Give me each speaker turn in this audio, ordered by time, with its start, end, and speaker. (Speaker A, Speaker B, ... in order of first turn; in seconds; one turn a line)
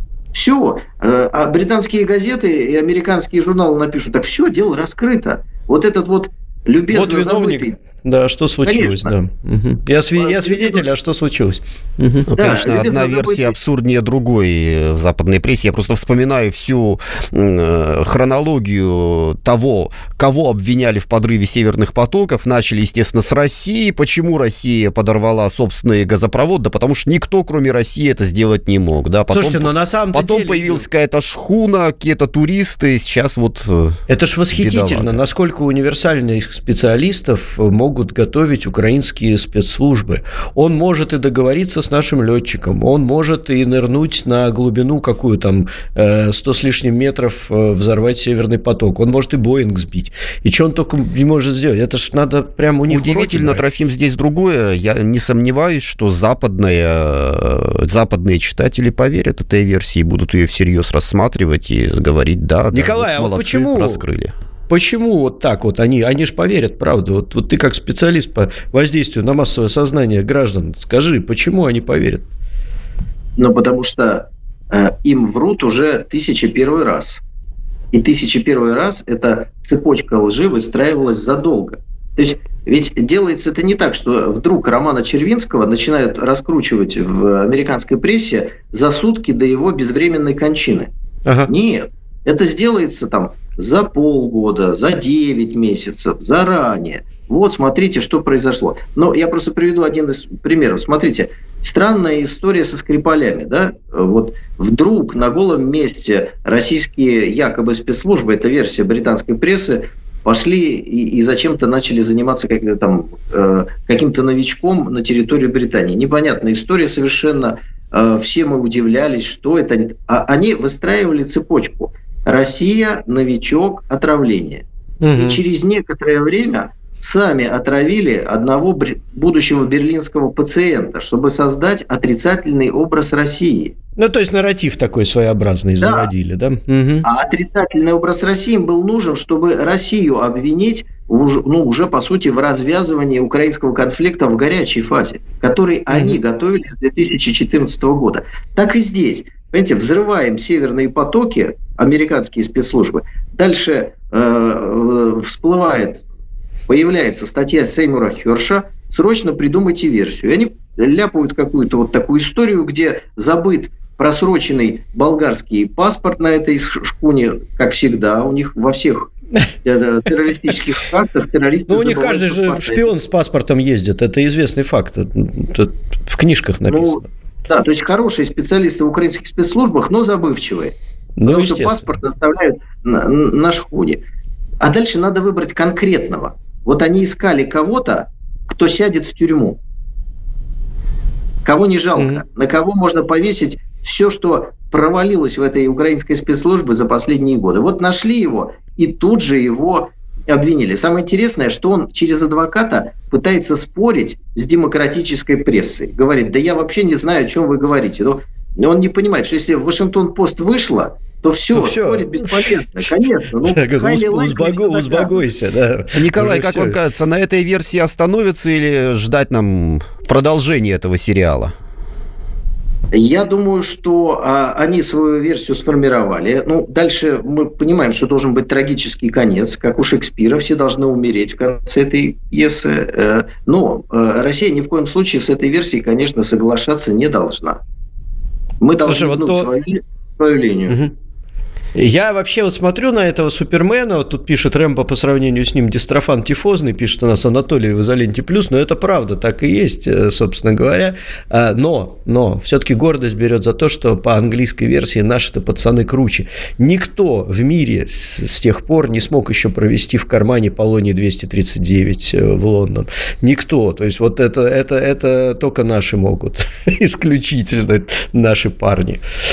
Speaker A: 0.3-7.7
Speaker B: 6.9-12.3
Speaker A: 8.6-9.1
Speaker A: 10.2-10.8
Speaker C: 12.3-34.0
Speaker A: 12.3-13.5
Speaker B: 29.3-30.8
Speaker B: 34.1-53.6
Speaker C: 34.5-35.2
Speaker C: 52.9-64.3
Speaker B: 62.7-64.0
Speaker B: 64.7-72.2
Speaker A: 73.4-77.2
Speaker A: 77.9-90.9
Speaker A: 91.5-124.6
Speaker B: 125.0-125.4
Speaker A: 125.2-133.8
Speaker B: 134.0-137.1
Speaker A: 135.8-136.1
Speaker A: 137.0-156.0
Speaker B: 145.9-146.2
Speaker A: 156.7-169.1
Speaker A: 169.7-172.9
Speaker B: 171.7-177.0
Speaker A: 176.7-180.8
Speaker B: 181.2-181.8
Speaker A: 181.3-184.0
Speaker A: 184.6-189.6
Speaker A: 191.4-215.2
Speaker B: 192.0-192.2
Speaker B: 211.5-216.8
Speaker C: 215.9-221.5
Speaker A: 222.9-237.6
Speaker A: 238.6-240.8
Speaker B: 238.8-239.5
Speaker B: 241.8-269.0